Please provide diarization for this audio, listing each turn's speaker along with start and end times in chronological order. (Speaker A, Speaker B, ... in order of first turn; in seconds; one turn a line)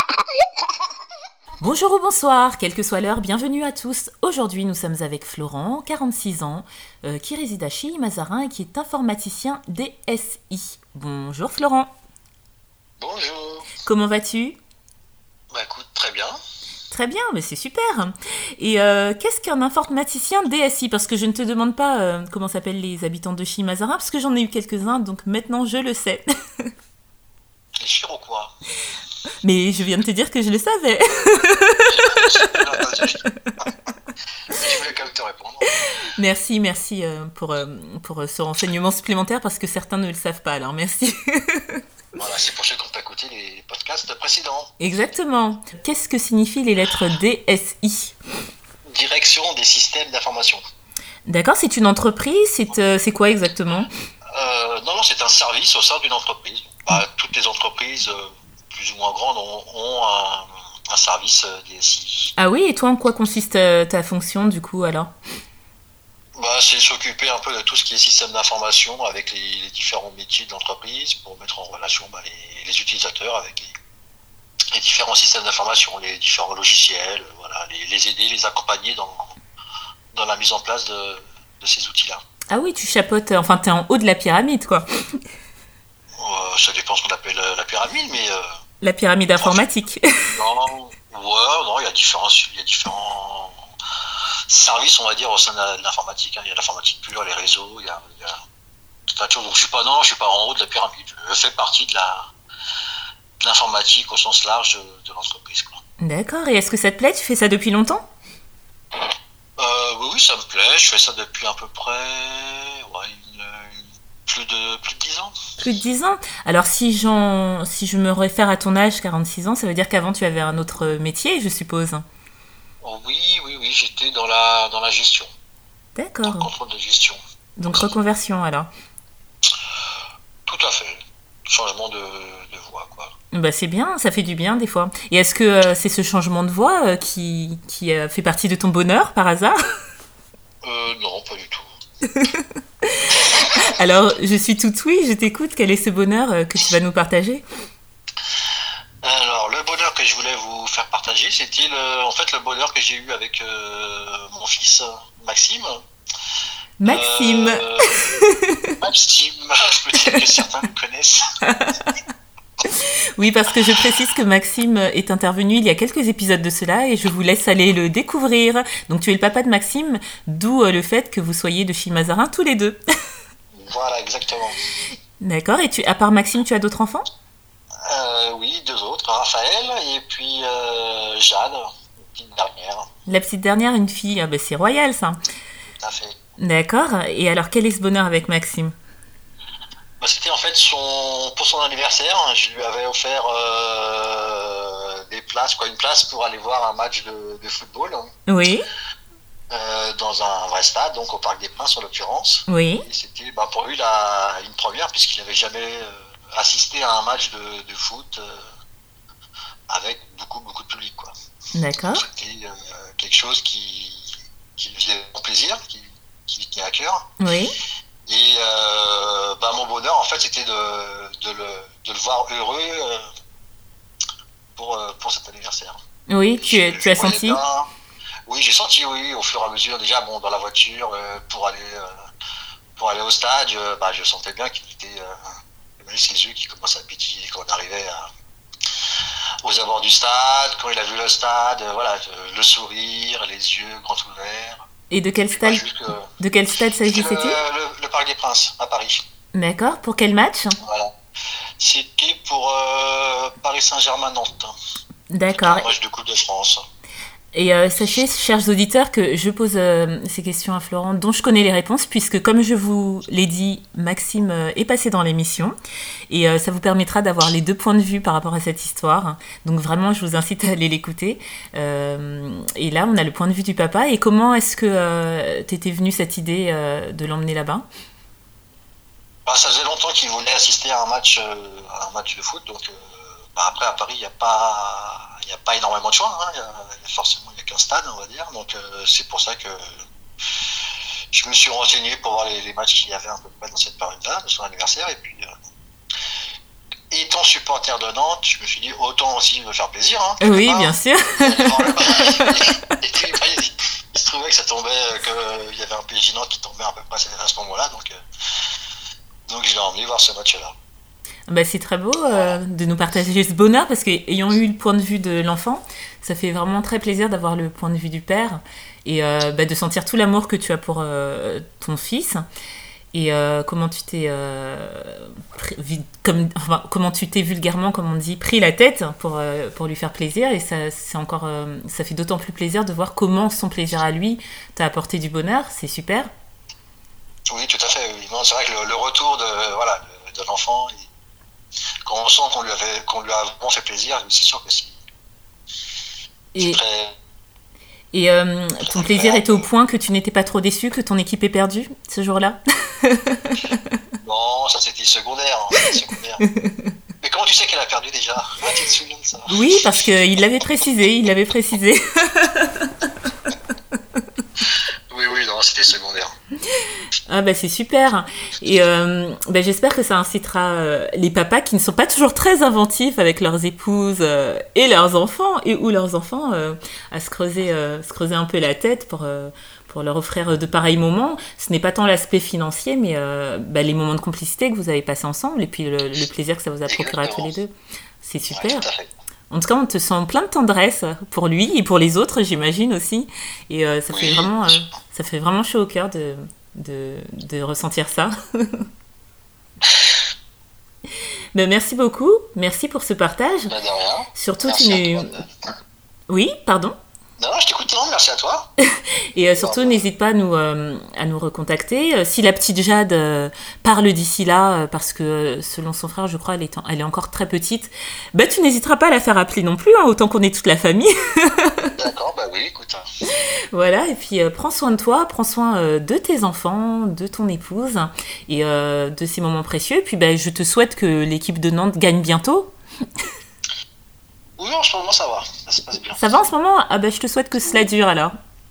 Speaker A: 1.6-11.9
Speaker B: 13.0-13.7
Speaker A: 13.8-14.6
Speaker B: 15.5-16.3
Speaker A: 16.9-26.3
Speaker B: 27.8-28.5
Speaker A: 29.4-32.5
Speaker B: 31.9-33.2
Speaker B: 34.5-35.7
Speaker A: 36.1-41.8
Speaker B: 42.2-44.7
Speaker A: 44.8-48.1
Speaker B: 48.9-50.6
Speaker A: 51.2-53.9
Speaker B: 54.3-62.3
Speaker A: 62.4-65.1
Speaker B: 66.3-73.7
Speaker B: 74.7-79.3
Speaker B: 80.1-82.2
Speaker A: 82.5-84.8
Speaker B: 86.2-88.4
Speaker A: 88.8-90.0
Speaker B: 89.4-89.7
Speaker B: 90.3-93.6
Speaker B: 94.5-98.3
Speaker B: 99.1-102.3
Speaker B: 103.4-105.8
Speaker A: 106.0-108.0
Speaker B: 109.6-115.3
Speaker A: 115.6-122.0
Speaker B: 122.8-125.3
Speaker A: 125.9-126.5
Speaker B: 126.2-127.9
Speaker A: 127.6-128.7
Speaker B: 130.4-131.0
Speaker B: 131.5-133.1
Speaker A: 133.3-139.6
Speaker B: 140.6-141.7
Speaker A: 142.2-142.4
Speaker A: 143.0-147.4
Speaker B: 149.0-155.8
Speaker A: 156.8-158.7
Speaker B: 156.8-157.9
Speaker B: 158.8-161.2
Speaker A: 161.4-161.8
Speaker A: 162.7-172.8
Speaker B: 173.5-174.6
Speaker A: 175.2-177.0
Speaker B: 177.9-182.9
Speaker A: 183.1-185.2
Speaker B: 185.7-186.1
Speaker A: 186.4-188.7
Speaker B: 190.0-198.1
Speaker A: 198.3-198.6
Speaker B: 199.5-208.4
Speaker A: 202.5-202.8
Speaker B: 209.7-211.1
Speaker A: 211.5-212.0
Speaker B: 211.9-217.0
Speaker A: 217.2-217.5
Speaker B: 218.1-223.0
Speaker B: 224.6-225.8
Speaker A: 226.1-227.4
Speaker B: 226.4-227.7
Speaker B: 228.3-231.9
Speaker B: 232.8-235.2
Speaker B: 235.8-238.1
Speaker B: 239.4-244.6
Speaker A: 244.9-245.6
Speaker B: 245.3-246.1
Speaker A: 246.2-247.4
Speaker B: 246.8-249.0
Speaker A: 249.3-250.5
Speaker B: 250.6-250.9
Speaker B: 251.6-254.5
Speaker A: 255.1-255.7
Speaker B: 255.3-256.6
Speaker A: 257.3-265.5
Speaker A: 266.1-277.6
Speaker B: 279.2-282.8
Speaker B: 283.3-289.6
Speaker B: 291.1-295.3
Speaker B: 296.9-307.9
Speaker A: 300.2-302.2
Speaker B: 309.3-310.5
Speaker A: 311.3-322.2
Speaker B: 312.1-312.4
Speaker A: 322.9-336.1
Speaker B: 337.3-340.9
Speaker B: 341.8-344.8
Speaker A: 346.3-346.6
Speaker B: 346.4-346.9
Speaker A: 347.9-353.6
Speaker B: 348.6-349.4
Speaker B: 354.0-356.2
Speaker A: 356.4-356.7
Speaker B: 357.0-359.3
Speaker A: 359.3-362.7
Speaker B: 364.9-366.1
Speaker A: 367.1-388.6
Speaker B: 386.7-387.3
Speaker B: 388.3-388.9
Speaker A: 389.3-398.6
Speaker B: 393.9-394.6
Speaker A: 401.3-403.5
Speaker B: 403.5-405.2
Speaker A: 404.2-405.1
Speaker A: 406.1-406.8
Speaker B: 407.2-408.5
Speaker A: 409.1-421.7
Speaker B: 409.2-409.8
Speaker B: 421.8-422.8
Speaker A: 423.5-432.5
Speaker B: 434.4-436.0
Speaker A: 435.9-438.1